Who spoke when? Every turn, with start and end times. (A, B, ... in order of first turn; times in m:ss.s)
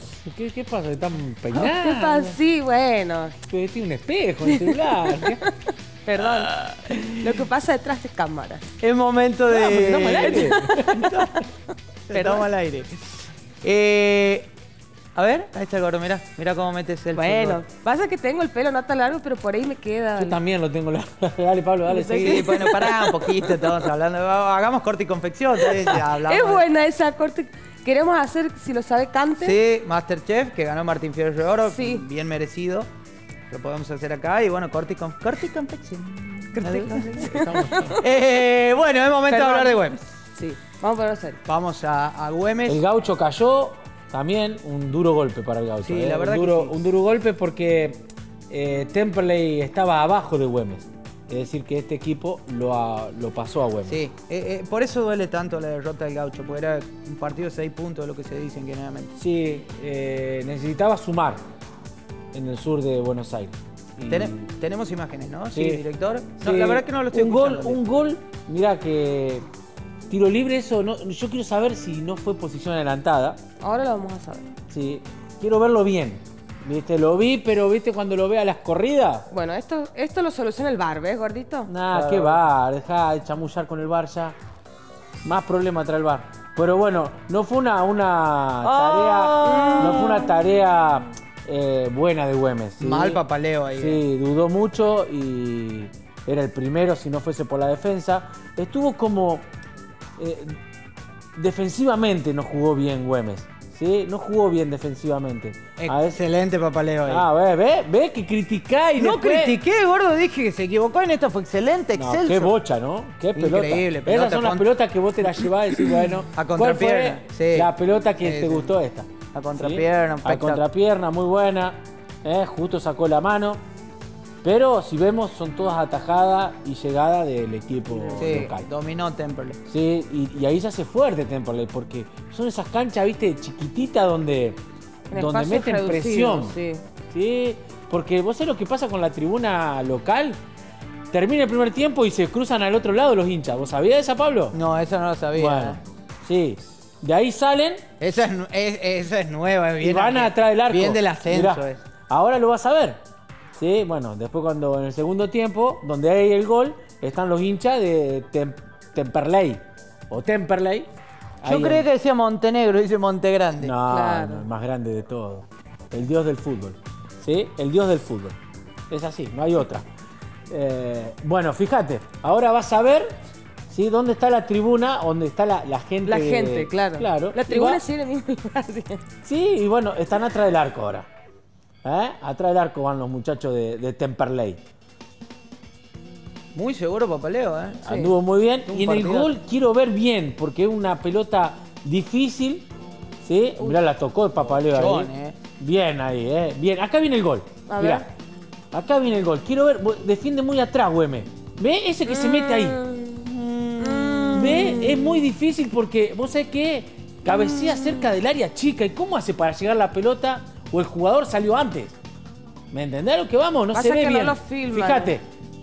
0:00.1-0:02.4 A
0:01.5-0:03.4 B
0:03.5-0:05.4 A
0:04.4-0:05.4 B
0:06.0-0:06.5 B
0:06.5-0:07.3 C
0:07.1-0:08.6 B
0:08.8-0:11.5 C
0:09.5-0:11.3 A
0:12.1-0:14.5 C
0:12.1-0:12.4 B
0:15.1-0:17.6 C
0:17.1-0:20.4 B
0:20.2-0:22.7 A
0:21.9-0:23.4 B
0:22.2-0:26.7 C
0:25.6-0:29.6 B
0:29.3-0:32.9 C
0:31.6-0:32.0 B
0:33.5-0:37.3 C
0:36.5-0:37.9 B
0:37.2-0:38.0 A
0:37.9-0:40.0 C
0:39.3-0:41.4 B
0:41.4-0:42.8 C
0:42.7-0:54.0 A
0:45.8-0:46.7 C
0:53.8-0:59.1 C
0:59.2-1:01.4 A
1:02.3-1:04.4 A
1:04.1-1:07.8 C
1:05.5-1:05.8 A
1:06.4-1:09.5 A
1:10.1-1:13.4 A
1:13.6-1:14.5 B
1:14.7-1:19.3 A
1:19.3-1:21.7 B
1:21.7-1:24.4 A
1:21.9-1:22.4 C
1:25.2-1:33.2 A
1:28.6-1:30.3 C
1:29.4-1:30.3 B
1:32.8-1:34.0 C
1:33.7-1:39.4 A
1:40.2-1:40.5 A
1:41.4-1:46.2 A
1:45.8-1:47.2 C
1:47.0-1:49.6 A
1:49.0-1:52.6 C
1:51.9-2:03.6 A
1:53.3-1:54.7 C
1:55.3-1:58.7 C
1:59.3-2:00.6 C
2:04.4-2:08.7 A
2:08.0-2:08.4 B
2:08.1-2:09.6 C
2:09.7-2:16.6 A
2:15.1-2:16.8 B
2:17.1-2:20.4 A
2:21.1-2:24.6 A
2:24.5-2:25.8 C
2:25.3-2:27.8 A
2:28.0-2:31.8 C
2:29.8-2:33.0 A
2:33.6-2:40.9 A
2:41.4-2:41.9 A
2:41.4-2:43.8 C
2:43.6-2:48.4 A
2:43.9-2:44.4 B
2:48.9-2:49.8 A
2:50.5-2:53.1 A
2:53.7-2:57.8 A
2:56.0-2:59.0 B
2:59.2-3:01.1 A
3:01.8-3:04.6 A
3:06.5-3:08.0 C
3:07.8-3:08.1 B
3:07.8-3:12.7 A
3:08.6-3:09.4 C
3:13.2-3:18.1 A
3:14.5-3:15.4 C
3:17.7-3:18.1 B
3:18.7-3:22.8 A
3:22.0-3:23.2 B
3:23.2-3:24.7 C
3:23.8-3:25.2 B
3:24.3-3:31.9 A
3:27.2-3:28.1 B
3:32.7-3:35.2 A
3:33.7-3:35.2 B